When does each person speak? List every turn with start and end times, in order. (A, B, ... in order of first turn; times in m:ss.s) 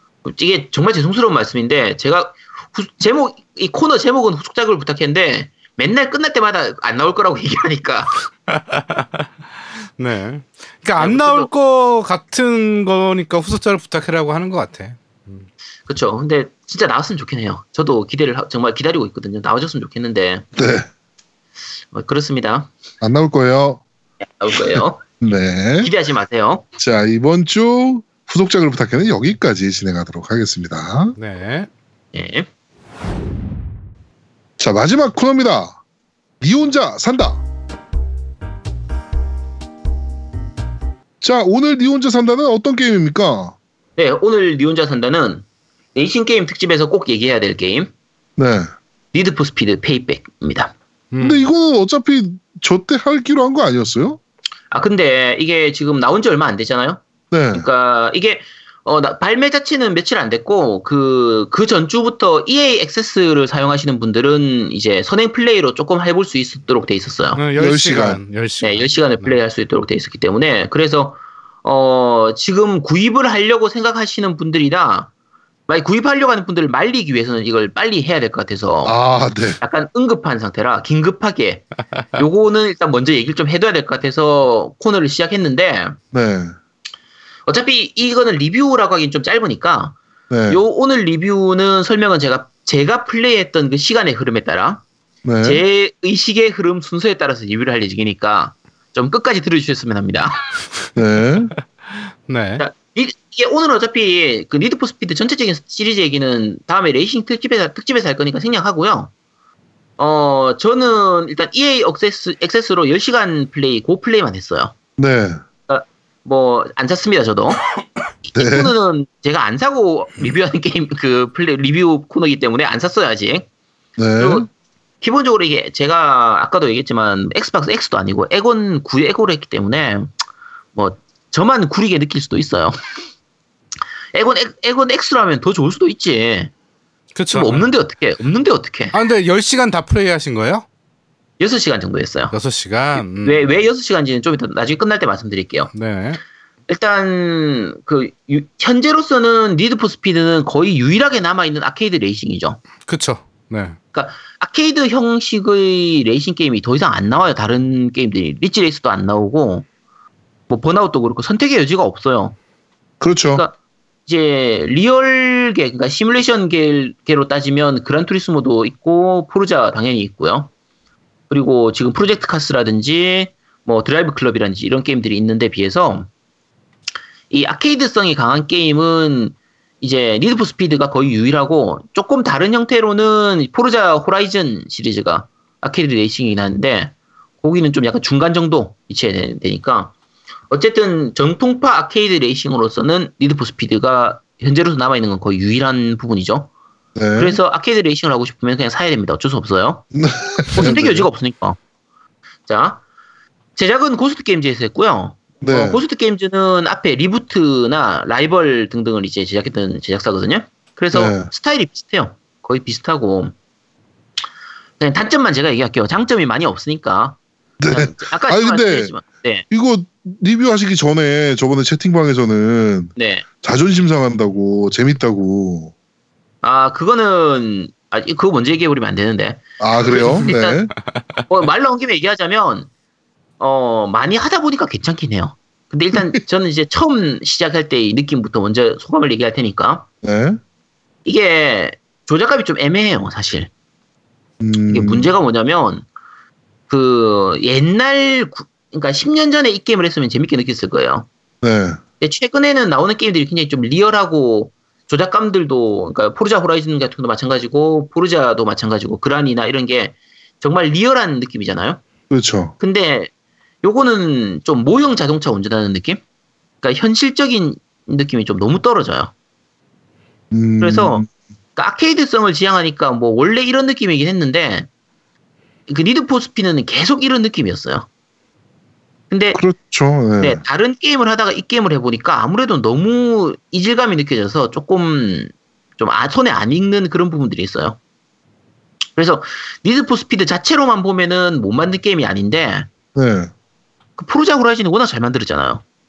0:00.2-0:08.2 A
0:08.5-0:09.3 B
0:10.0-0:15.5 B
0:11.0-0:11.5 A
0:15.9-0:20.5 A
0:20.6-0:20.9 C
0:21.9-0:22.7 A
0:23.0-0:23.8 C
0:24.4-0:25.0 A
0:24.7-0:25.9 C
0:25.8-0:26.6 A
0:26.8-0:31.1 C
0:31.2-0:31.7 B
0:32.1-0:32.5 A
0:34.6-0:35.8 C
0:36.4-0:37.4 C
0:41.2-0:43.6 C
0:44.0-0:47.9 A
0:48.4-0:48.7 C
0:49.1-0:50.7 A
0:51.1-0:51.4 B
0:51.2-0:54.2 C
0:54.7-0:57.0 A
0:57.3-0:57.7 C
0:57.5-1:07.4 A
1:07.4-1:09.4 B
1:07.6-1:08.2 C
1:08.6-1:15.1 A
1:15.7-1:18.9 A
1:18.8-1:19.6 C
1:19.6-1:26.0 A
1:26.1-1:26.5 C
1:27.5-1:30.0 A
1:30.3-1:30.6 C
1:30.5-1:34.8 A
1:35.2-1:35.6 C
1:35.4-1:40.4 A
1:40.9-1:41.5 C
1:42.2-1:42.6 B
1:42.6-1:49.1 A
1:50.0-1:54.7 A
1:55.0-1:55.4 C
1:55.7-1:57.6 A
1:58.2-2:03.5 A
1:58.4-1:58.7 C
2:04.0-2:04.5 C
2:04.2-2:04.5 A
2:05.0-2:10.1 A
2:10.7-2:12.8 A
2:14.1-2:16.5 A
2:17.1-2:17.7 B
2:17.3-2:18.9 A
2:18.9-2:20.6 B
2:21.4-2:22.3 A
2:22.3-2:23.5 B
2:23.1-2:25.7 A
2:25.7-2:26.2 B
2:26.7-2:32.6 A
2:32.9-2:33.8 B
2:33.9-2:39.6 A
2:40.5-2:42.4 A
2:43.0-2:43.4 C
2:44.0-2:50.5 A
2:51.3-2:56.1 A
2:57.3-3:09.9 A
3:10.5-3:16.5 A
3:17.0-3:17.4 C
3:17.1-3:19.8 A
3:19.9-3:21.1 C
3:20.5-3:21.6 A
3:22.5-3:22.8 A
3:23.6-3:33.3 A
3:25.4-3:25.8 C
3:30.9-3:31.3 C
3:34.8-3:37.2 A
3:37.6-3:38.9 C
3:37.7-3:39.4 A
3:39.5-3:42.9 C
3:43.0-3:43.2 A
3:43.4-3:45.7 C
3:46.4-3:50.6 A
3:49.6-3:50.7 C
3:51.3-3:52.7 A
3:53.4-3:59.8 A
4:00.0-4:00.4 C
4:01.0-4:03.5 A
4:04.4-4:05.1 C
4:04.7-4:05.8 A
4:06.7-4:11.1 A
4:11.4-4:11.8 C
4:12.0-4:21.8 A
4:22.1-4:22.5 C
4:22.6-4:23.1 A
4:23.6-4:26.0 A
4:26.6-4:29.1 A
4:30.3-4:31.1 C
4:30.6-4:34.7 A
4:35.7-4:37.9 A
4:39.1-4:39.4 A
4:39.3-4:40.4 C
4:40.2-4:47.8 A
4:49.0-4:52.7 A
4:52.9-4:53.3 C
4:54.0-4:55.6 A